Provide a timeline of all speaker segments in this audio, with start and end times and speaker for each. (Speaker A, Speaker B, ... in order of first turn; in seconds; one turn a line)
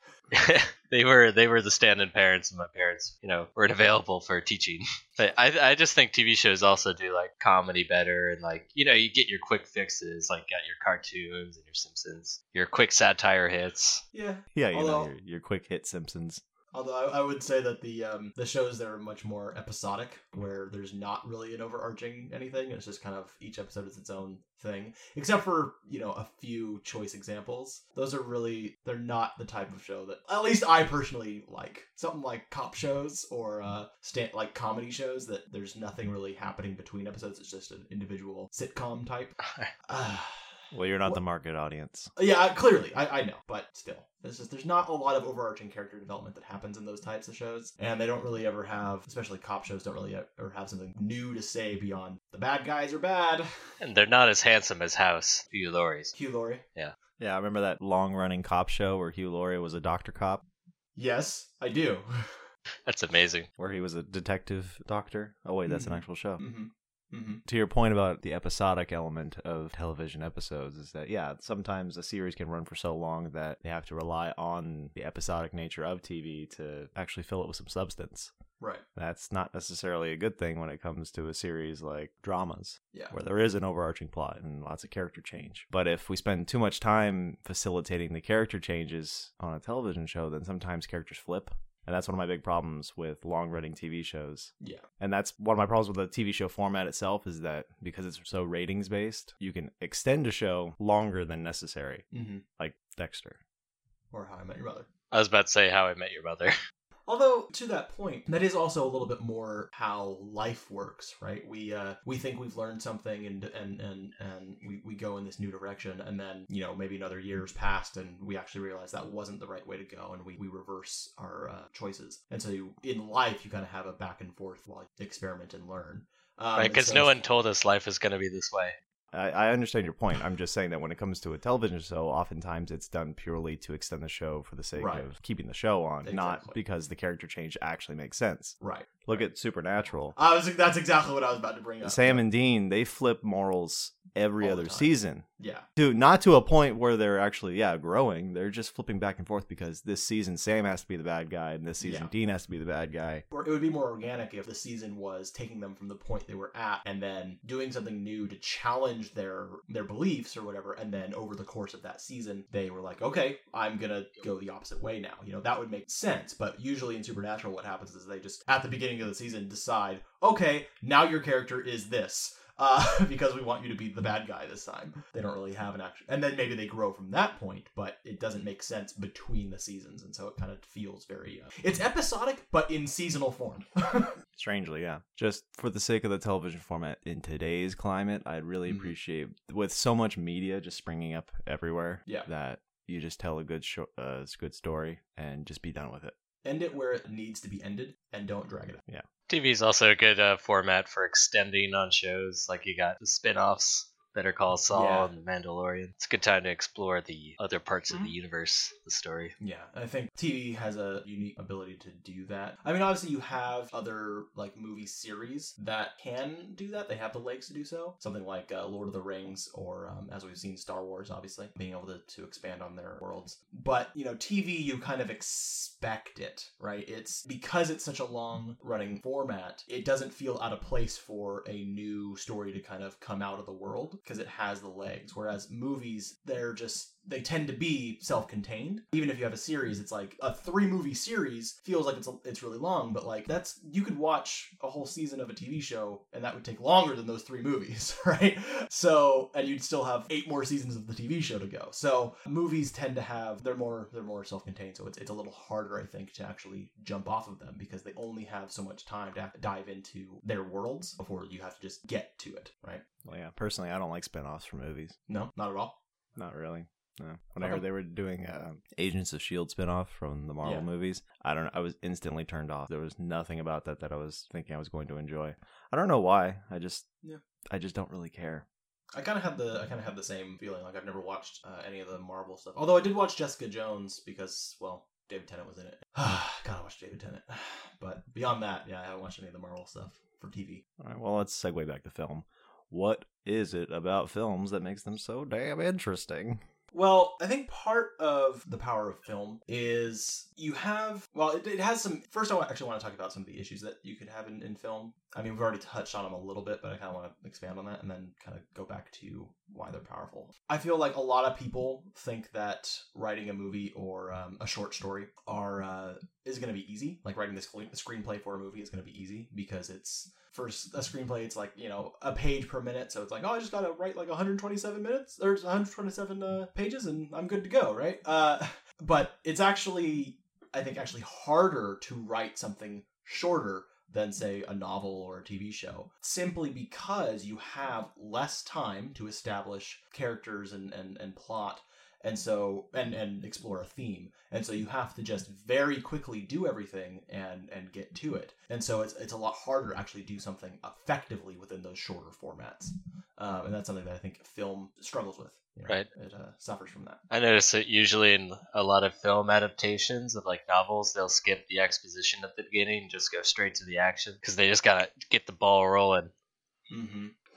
Speaker A: 0.3-14.0
Speaker B: 14.1-15.1
Speaker C: 14.5-16.4
Speaker B: 16.7-41.2
Speaker A: 39.4-39.7
Speaker C: 40.7-42.1
Speaker B: 42.1-53.5
Speaker A: 53.8-56.1
Speaker B: 56.1-56.6
Speaker C: 57.2-60.4
Speaker B: 61.0-62.4
Speaker A: 62.9-63.5
Speaker C: 63.6-66.4
Speaker B: 65.7-67.4
Speaker C: 67.5-78.3
Speaker B: 78.6-78.8
Speaker C: 78.9-102.0
Speaker B: 94.6-94.8
Speaker B: 102.1-102.4
Speaker C: 102.6-103.4
Speaker B: 104.1-104.9
Speaker A: 105.1-106.5
Speaker B: 107.1-127.2
Speaker A: 126.5-128.8
Speaker C: 129.1-140.2
Speaker B: 134.8-135.1
Speaker B: 136.0-136.6
Speaker B: 138.6-139.2
Speaker B: 140.2-142.2
Speaker C: 141.8-145.2
Speaker B: 144.4-145.7
Speaker C: 145.8-153.2
Speaker B: 151.8-152.1
Speaker B: 153.3-184.2
Speaker C: 184.3-196.1
Speaker B: 188.7-188.9
Speaker B: 196.4-198.8
Speaker A: 199.3-209.3
Speaker B: 204.7-205.1
Speaker B: 209.4-262.9
Speaker C: 263.0-265.0
Speaker B: 265.1-265.8
Speaker C: 266.1-276.9
Speaker C: 277.5-278.4
Speaker B: 278.9-290.6
Speaker C: 290.8-296.4
Speaker B: 296.7-357.0
Speaker A: 357.1-366.1
Speaker B: 366.7-367.1